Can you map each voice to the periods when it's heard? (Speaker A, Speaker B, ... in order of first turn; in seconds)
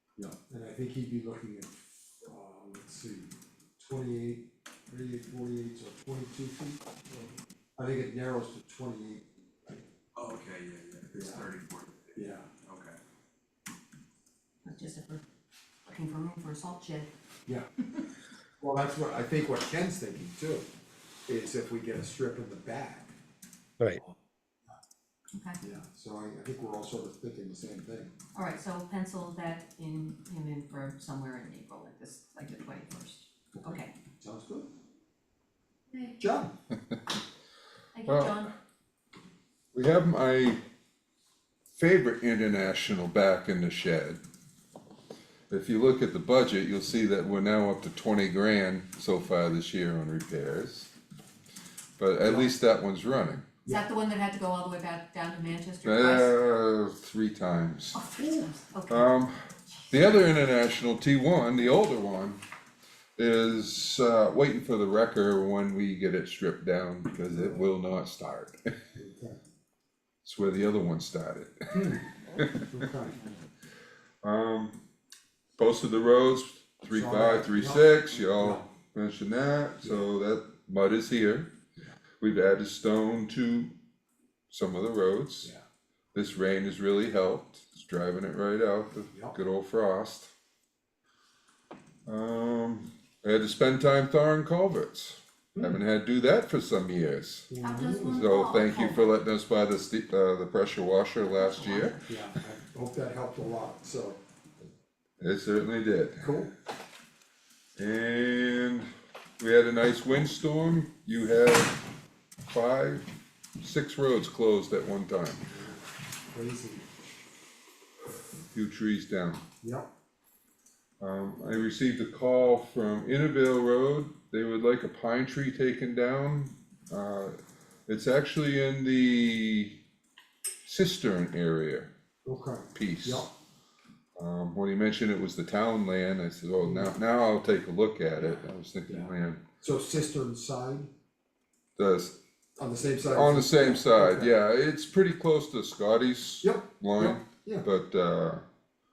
Speaker A: 0.2-9.8, 11.1-11.5, 12.1-12.5, 18.6-20.7, 21.3-23.1, 25.6-28.1, 33.6-34.7, 36.2-36.5, 52.2-52.5, 67.3-67.6, 69.0-69.4, 71.7-72.0, 72.6-73.2, 76.9-78.7, 97.5-98.3, 102.1-104.2, 106.2-106.5, 115.5-115.8, 116.3-116.9, 119.6-119.9, 132.2-133.3, 136.6-136.9, 138.2-140.9, 142.6-144.3, 146.4-147.7
Speaker B: 10.2-13.0
Speaker C: 14.6-15.2, 15.8-17.1, 25.3-25.6, 28.3-33.9, 35.9-36.1, 37.9-38.5, 53.6-56.3, 57.9-59.1, 97.6-99.0, 101.4-102.0
Speaker D: 38.0-38.5, 39.7-40.6, 41.8-44.2, 45.5-50.9, 52.0-53.5, 55.8-58.0, 58.9-59.4, 59.9-62.4, 63.2-68.6, 70.2-72.8, 74.2-74.8, 75.6-81.5, 82.2-83.7, 84.5-85.5, 86.1-90.3, 92.1-97.5, 98.1-102.0, 105.2-106.5, 107.8-111.8, 112.5-113.0, 113.6-115.4, 118.5-119.4, 121.0-127.3, 127.9-129.8, 130.6-131.9, 132.7-133.3, 134.2-139.4, 141.8-142.2, 143.0-148.4